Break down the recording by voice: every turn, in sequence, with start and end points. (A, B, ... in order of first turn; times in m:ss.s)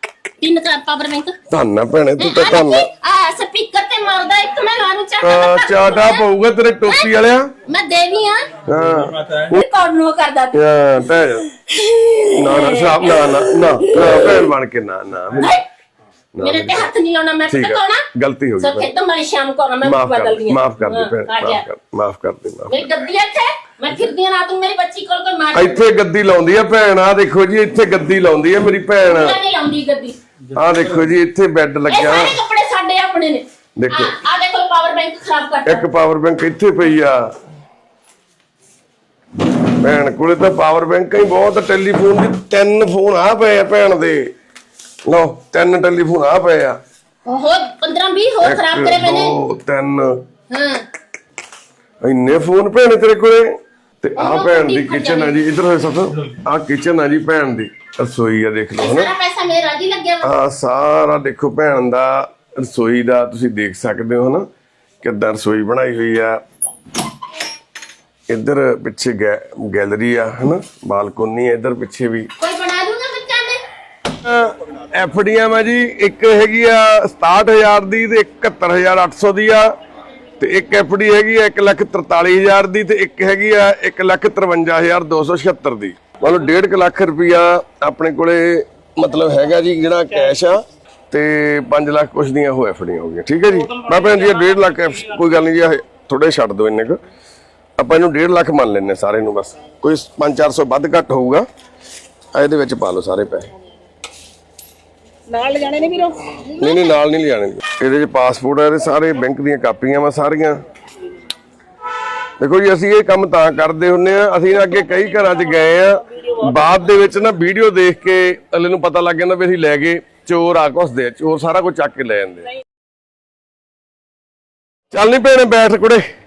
0:00.4-0:01.4 A
0:01.5-0:02.9 B
0:02.2-0:06.3 A
0:05.2-0:07.5 B
0:06.8-0:08.5 A
0:08.7-0:09.6 B
0:09.4-0:10.6 A
0:10.5-0:11.5 B
0:11.7-0:14.4 A
0:12.4-0:15.6 B
0:15.4-0:15.6 A
0:16.4-0:16.9 B
0:16.4-0:18.1 A
0:17.5-0:18.9 B
0:18.6-0:21.6 A
0:19.8-0:22.9 B
0:22.7-0:25.8 A
0:25.5-0:29.4 B
0:29.0-0:30.2 A
0:30.5-0:32.4 B
0:31.9-0:35.8 A
0:33.8-0:34.1 B
0:35.7-0:37.3 B
0:39.8-0:44.3 B
0:45.1-0:46.8 B
0:47.2-0:49.4 A
0:48.4-0:50.2 B
0:50.5-0:50.8 A
0:52.0-0:53.5 B
0:54.0-0:59.1 B
0:54.2-0:55.4 A
0:58.8-1:00.3 A
1:00.2-1:04.4 B
1:05.0-1:06.4 B
1:08.3-1:12.3 B
1:12.4-1:13.6 A
1:14.1-1:19.7 B
1:20.4-1:37.0 B
1:33.5-1:35.0 C
1:37.8-1:41.4 B
1:42.3-1:43.5 B
1:45.3-1:46.4 C
1:46.4-1:47.0 A
1:46.6-1:50.6 B
1:52.4-2:02.5 B
1:54.5-1:56.8 C
2:04.9-2:06.0 B